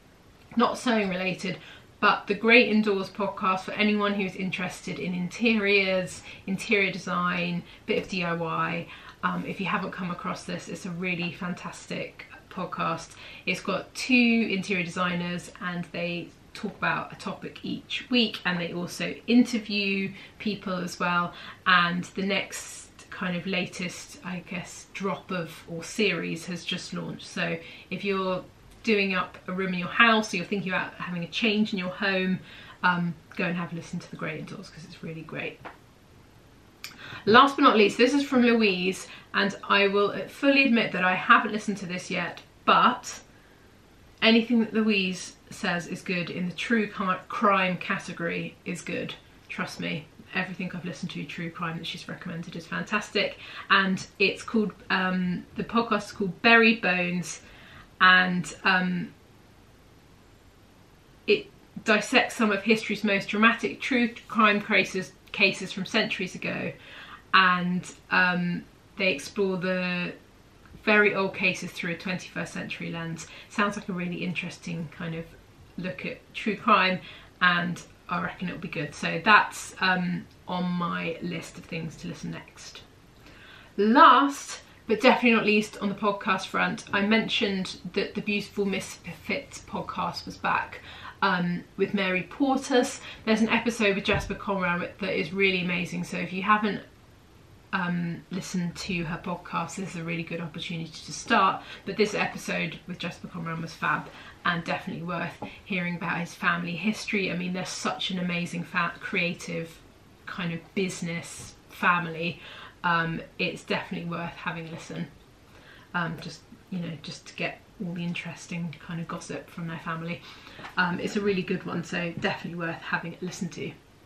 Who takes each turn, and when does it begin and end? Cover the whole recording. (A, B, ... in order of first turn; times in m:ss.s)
0:00.6-0:35.6 A
0:37.2-0:43.2 A
0:44.2-0:57.4 A
0:58.0-0:59.1 A
1:01.2-1:06.7 A
1:07.3-1:10.2 A
1:10.8-1:22.8 A
1:23.8-1:36.8 A
1:37.7-1:55.1 A
1:55.9-2:00.2 A
2:00.8-2:03.7 A